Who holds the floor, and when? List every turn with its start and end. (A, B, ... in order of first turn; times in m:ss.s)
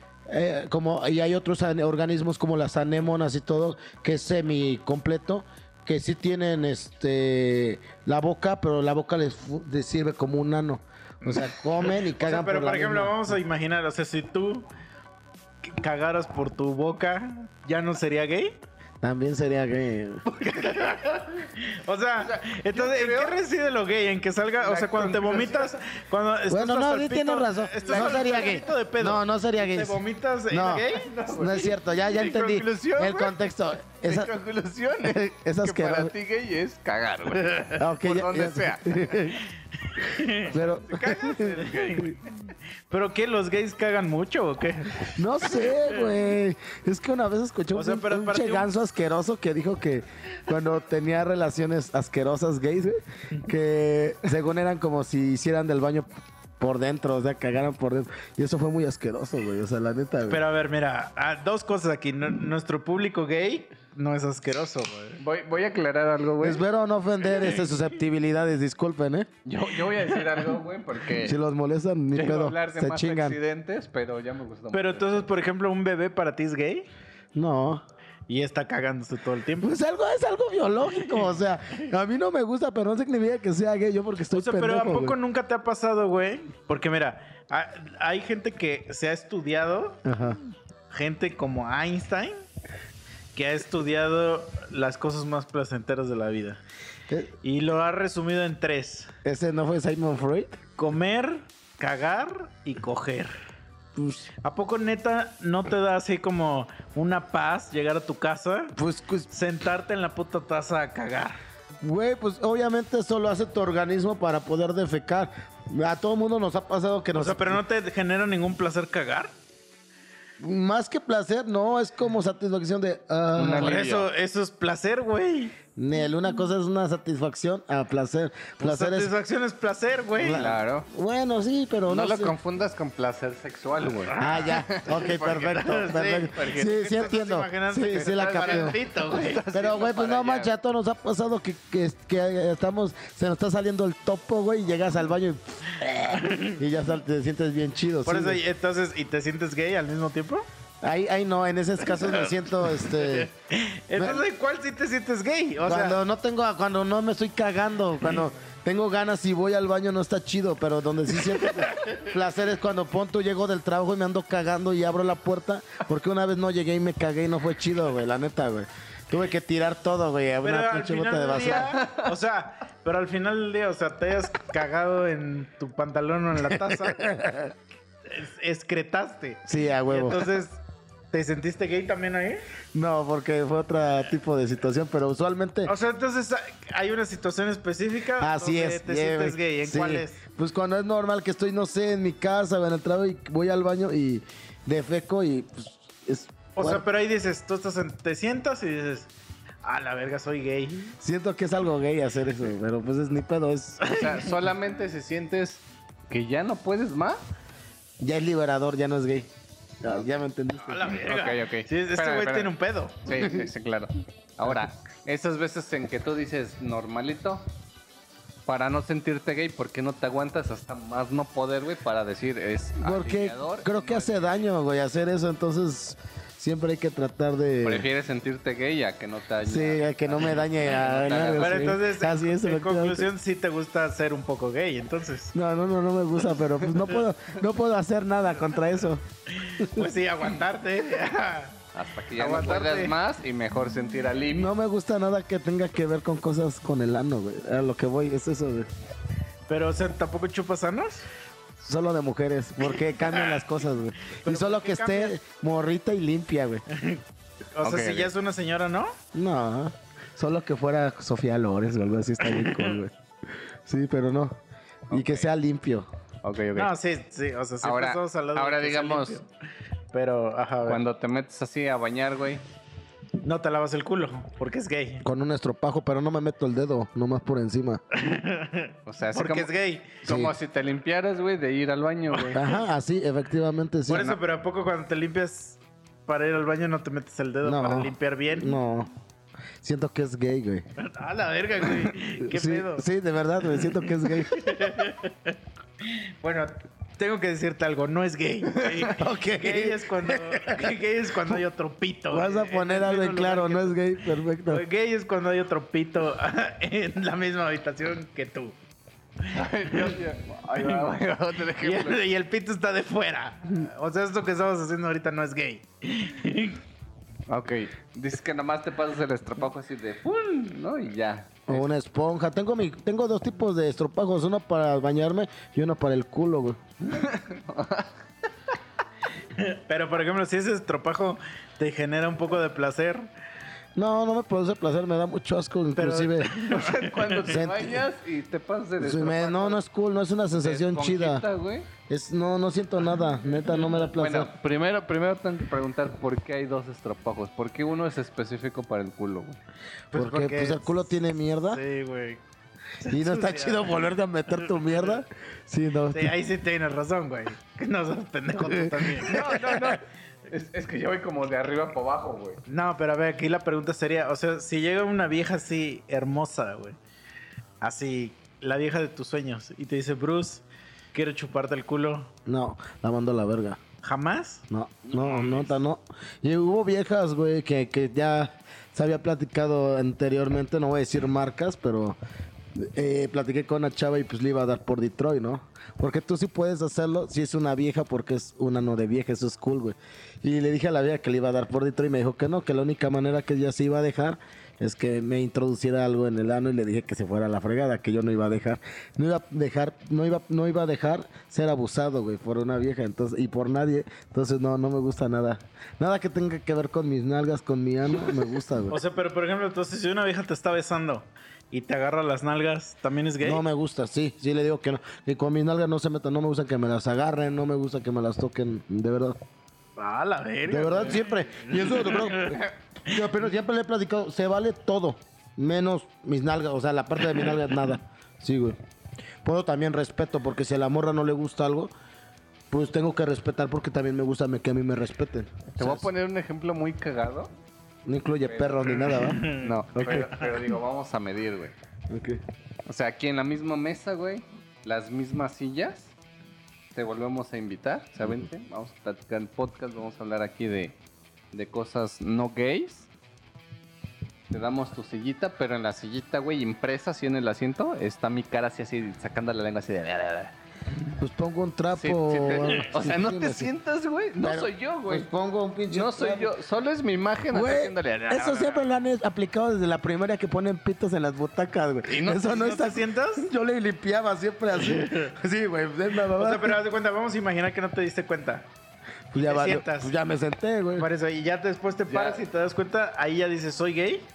0:00.3-0:13.3 A
0:11.2-0:14.7 B
0:15.6-0:18.6 B
0:19.0-0:20.2 A
0:20.3-0:21.0 C
0:20.6-0:31.4 B
0:22.2-0:23.4 C
0:24.6-0:25.8 C
0:26.5-0:30.0 A
0:27.8-0:28.6 C
0:30.5-0:34.3 A
0:31.1-0:33.4 C
0:34.0-0:39.3 C
0:35.0-0:36.1 A
0:37.8-0:39.4 A
0:40.0-0:42.2 B
0:40.4-0:42.1 A
0:42.9-0:46.0 B
0:45.2-1:00.4 A
0:47.7-0:48.7 B
1:00.3-1:05.2 B
1:05.2-1:06.6 C
1:06.4-1:09.3 A
1:09.5-1:11.4 C
1:11.2-1:13.4 A
1:12.1-1:15.3 C
1:14.7-1:16.9 B
1:17.4-1:17.8 A
1:18.3-1:19.8 B
1:19.6-1:25.2 A
1:24.3-1:30.0 B
1:30.0-1:30.4 A
1:30.9-1:32.4 B
1:33.3-1:36.6 B
1:37.4-1:39.1 B
1:39.2-1:40.6 A
1:40.8-1:43.3 B
1:44.0-1:44.3 A
1:44.4-1:48.7 B
1:48.8-1:49.3 A
1:49.3-1:51.4 B
1:51.8-1:57.6 A
1:57.2-1:59.4 B
2:00.4-2:03.8 A
2:03.4-2:04.1 C
2:03.5-2:05.6 B
2:05.8-2:09.1 A
2:08.6-2:10.6 B
2:10.2-2:12.4 A
2:10.3-2:10.9 C
2:11.9-2:15.8 C
2:14.1-2:14.6 B
2:14.2-2:18.8 A
2:15.6-2:19.5 B
2:16.4-2:16.7 C
2:17.9-2:20.5 C
2:19.5-2:28.4 A
2:26.1-2:26.6 B
2:28.0-2:30.5 B
2:30.8-2:33.3 A
2:33.0-2:36.0 B
2:34.0-2:34.2 A
2:35.6-2:51.8 A
2:41.4-2:42.0 B
2:50.4-2:57.0 B
2:56.6-2:57.5 A
2:58.1-3:00.6 B
2:59.5-3:00.3 A
3:01.1-3:02.4 B
3:02.7-3:05.7 A
3:05.7-3:10.2 B
3:08.2-3:16.8 A
3:16.6-3:19.1 B
3:19.6-3:20.9 B
3:21.0-3:24.0 A
3:23.8-3:24.2 B
3:23.8-3:27.2 C
3:28.0-3:29.3 A
3:29.8-3:31.0 A
3:30.7-3:33.3 B
3:31.0-3:37.5 C
3:38.5-3:44.4 C
3:42.8-3:47.9 A
3:47.6-3:51.8 C
3:49.4-3:53.1 A
3:51.3-3:55.3 B
3:55.3-3:59.0 A
3:59.3-4:01.6 B
3:59.6-3:59.9 A
4:01.7-4:04.5 C
4:02.2-4:02.9 B
4:04.3-4:08.7 A
4:09.5-4:11.1 B
4:11.6-4:16.6 A
4:13.1-4:13.4 B
4:14.2-4:15.2 B
4:16.7-4:17.0 B
4:17.6-4:19.0 B
4:17.6-4:18.1 C
4:19.1-4:22.9 A
4:23.6-4:24.4 A
4:24.9-4:25.3 C
4:24.9-4:25.9 A
4:26.2-4:26.7 C
4:26.6-4:29.3 B
4:27.6-4:29.2 C
4:29.9-4:30.8 B
4:30.7-4:32.4 C
4:33.2-4:35.0 B
4:35.0-4:37.8 A
4:37.9-4:40.0 B
4:38.9-4:42.5 C
4:40.0-4:40.3 A
4:42.3-4:44.2 A
4:43.9-4:48.5 B
4:47.4-4:48.9 A
4:49.6-4:50.7 A
4:50.8-4:52.8 B
4:52.2-4:54.7 A
4:53.6-5:03.8 B
4:58.9-5:00.7 A
5:02.1-5:04.6 A
5:04.5-5:08.6 B
5:09.3-5:12.0 C
5:09.4-5:10.0 B
5:10.6-5:10.9 B
5:11.6-5:16.6 B
5:17.3-5:21.7 C
5:21.5-5:26.6 A
5:26.9-5:27.9 C
5:29.4-5:33.1 B
5:33.8-5:36.3 A
5:35.8-5:37.4 B
5:36.3-5:39.6 C
5:37.3-5:37.8 A
5:38.8-5:41.2 A
5:40.4-5:41.7 C
5:41.9-5:44.3 A
5:43.9-5:49.4 C
5:49.9-5:50.9 B
5:49.9-5:51.6 A
5:51.5-5:52.2 B
5:52.8-5:53.8 B
5:52.9-5:56.2 A
5:54.6-5:55.0 B
5:55.9-5:59.4 B
5:58.4-5:59.8 A
5:59.0-6:02.4 C
6:02.5-6:06.8 B
6:07.6-6:12.1 B
6:12.3-6:13.6 A
6:13.8-6:15.5 B
6:14.5-6:22.0 A
6:22.6-6:48.8 A
6:48.7-6:53.4 B
6:53.2-6:59.2 A
6:59.8-7:02.4 B
7:00.5-7:08.6 A
7:09.2-7:11.7 A
7:12.5-7:15.9 A
7:15.5-7:17.3 C
7:17.9-7:19.3 A
7:18.2-7:21.5 C
7:18.7-7:20.4 B
7:21.9-7:22.2 A
7:22.7-7:25.9 C
7:26.7-7:30.8 C
7:31.3-7:32.9 C
7:34.3-7:40.3 C
7:41.0-7:43.5 A
7:41.8-7:45.1 C
7:44.2-7:46.3 A
7:45.7-7:48.6 C
7:47.3-7:56.6 A
7:51.9-7:52.2 C
7:52.2-7:53.3 B
7:56.1-7:58.5 B
7:59.1-8:00.9 A
7:59.2-7:59.9 B
8:00.8-8:04.1 B
8:01.9-8:02.2 C